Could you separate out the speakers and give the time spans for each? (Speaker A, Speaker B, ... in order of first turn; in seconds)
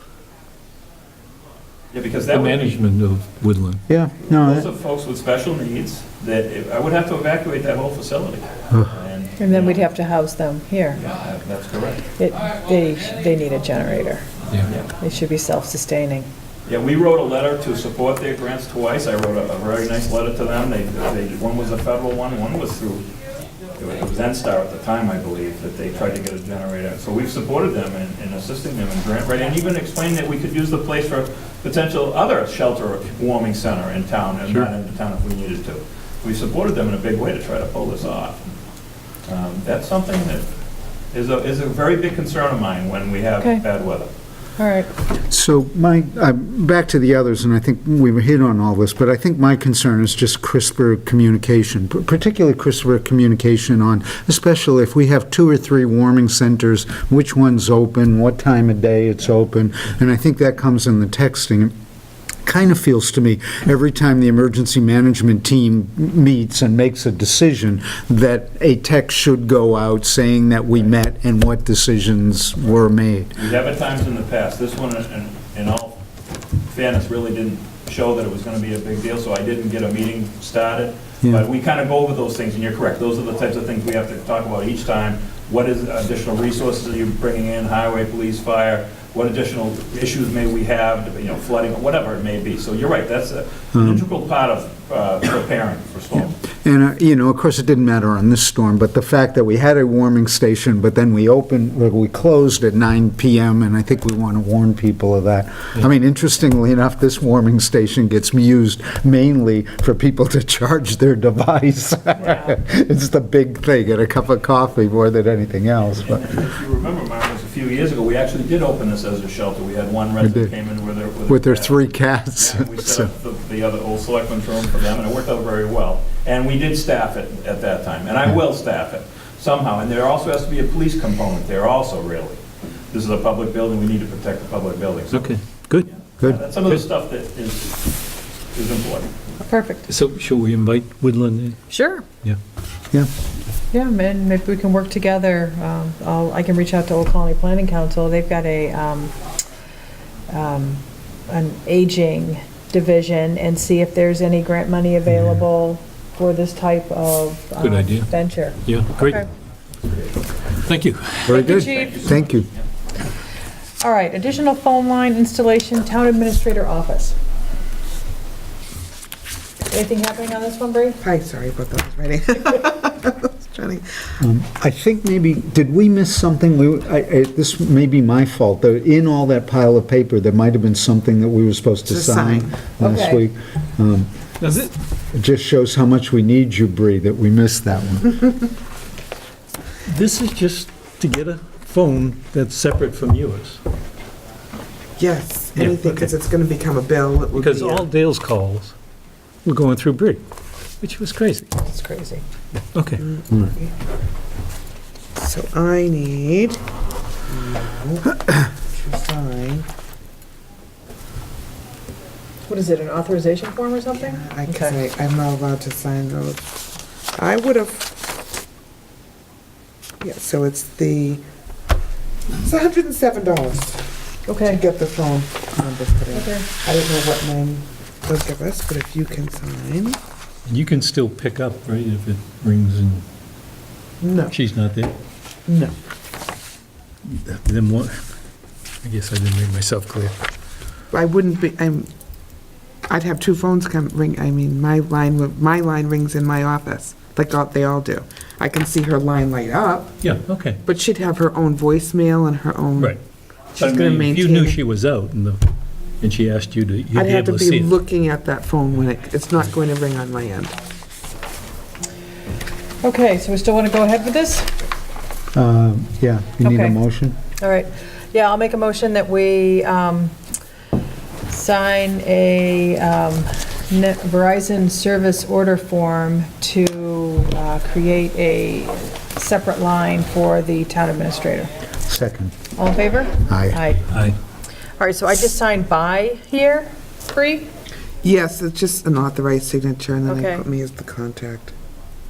Speaker A: 1.9-2.8, 4.3-9.8, 11.0-12.0, 16.7-23.1, 23.8-38.5, 39.2-40.5, 41.1-44.1, 73.3-76.0, 76.7-96.3, 115.9-137.9, 138.5-139.1, 161.3-162.6
Speaker B: 2.3-3.8, 135.1-135.9, 139.9-141.6, 157.6-158.1, 158.6-159.2, 160.6-161.3, 184.4-184.7, 189.9-193.6, 195.6-196.1, 197.3-198.7, 199.4-200.2, 200.8-201.5, 202.7-203.0, 230.4-233.0, 234.3-234.9, 237.1-238.0, 238.8-240.2, 250.0-250.6, 253.6-255.4, 256.0-257.8, 283.9-284.1
Speaker C: 3.9-4.7, 45.3-61.7, 62.4-73.3, 93.7-94.0, 96.6-116.2, 120.2-120.5, 121.3-123.1, 161.2-162.5, 174.2-184.1, 185.1-188.2, 265.3-267.2, 281.9-282.3, 283.3-283.6
Speaker D: 9.4-11.0, 12.2-14.3, 15.0-16.3, 44.6-44.9, 139.5-139.9, 141.7-142.1, 143.7-149.1, 150.3-159.3, 161.3-162.1, 163.8-167.2, 169.7-171.0, 182.8-183.2, 201.6-202.2, 212.5-214.8, 224.2-224.6, 226.1-226.4, 262.8-264.5, 266.4-266.8, 267.4-270.2, 271.3-281.5, 282.6-283.9, 284.8-287.5, 290.1-290.4
Speaker E: 171.0-174.2, 181.9-182.6, 195.0-197.9, 203.0-203.7, 205.2-206.6, 207.3-209.7, 214.0-216.4, 217.1-218.0, 220.0-221.2, 222.3-223.9, 224.4-230.0, 234.0-234.3, 235.5-235.7, 240.9-241.9, 242.9-253.0, 253.5-254.6, 256.9-260.6, 288.0-291.5